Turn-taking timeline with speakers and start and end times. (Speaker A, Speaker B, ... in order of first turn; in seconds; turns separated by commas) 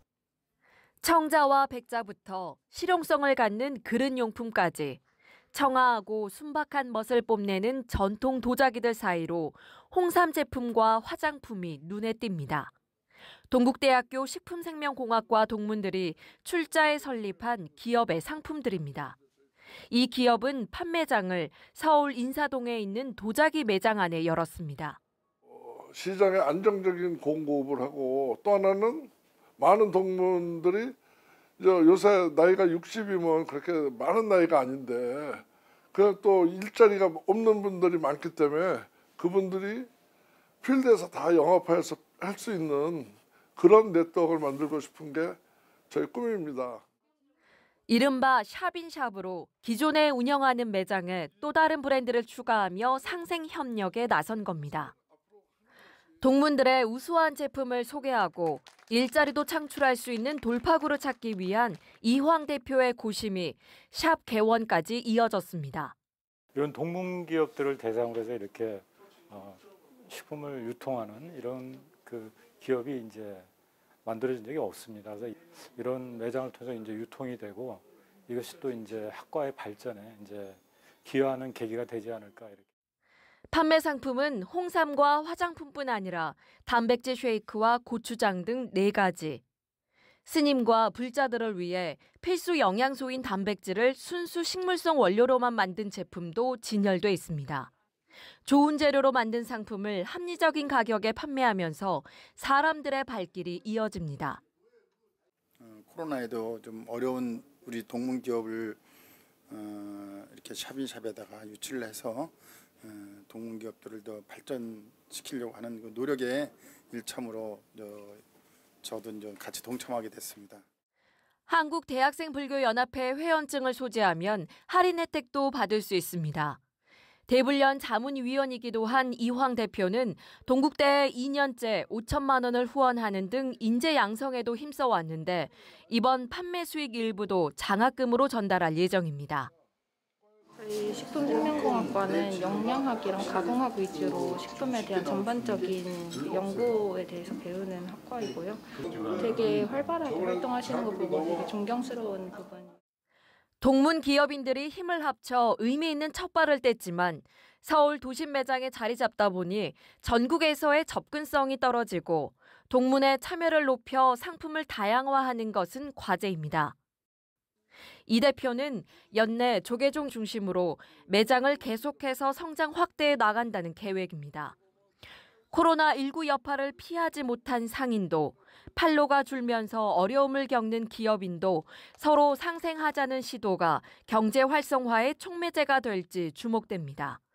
Speaker A: 1.0-5.0, Speaker A: 5.5-12.7, Speaker A: 13.5-19.2, Speaker A: 19.9-25.0, Speaker B: 25.5-31.0, Speaker B: 31.6-39.9, Speaker B: 40.6-45.4, Speaker B: 45.9-46.9, Speaker A: 47.9-54.9, Speaker A: 56.2-65.9, Speaker C: 66.5-73.5, Speaker C: 74.0-82.7, Speaker A: 83.5-89.4, Speaker A: 90.3-97.7, Speaker A: 98.5-104.4, Speaker D: 105.6-108.8, Speaker D: 109.5-118.2, Speaker D: 118.8-120.6, Speaker A: 121.5-126.6, Speaker A: 127.3-139.5, Speaker E: 140.6-152.8, Speaker D: 141.0-146.8, Speaker B: 148.9-151.6, Speaker A: 153.6-166.8, Speaker A: 168.1-174.6, Speaker A: 175.5-187.2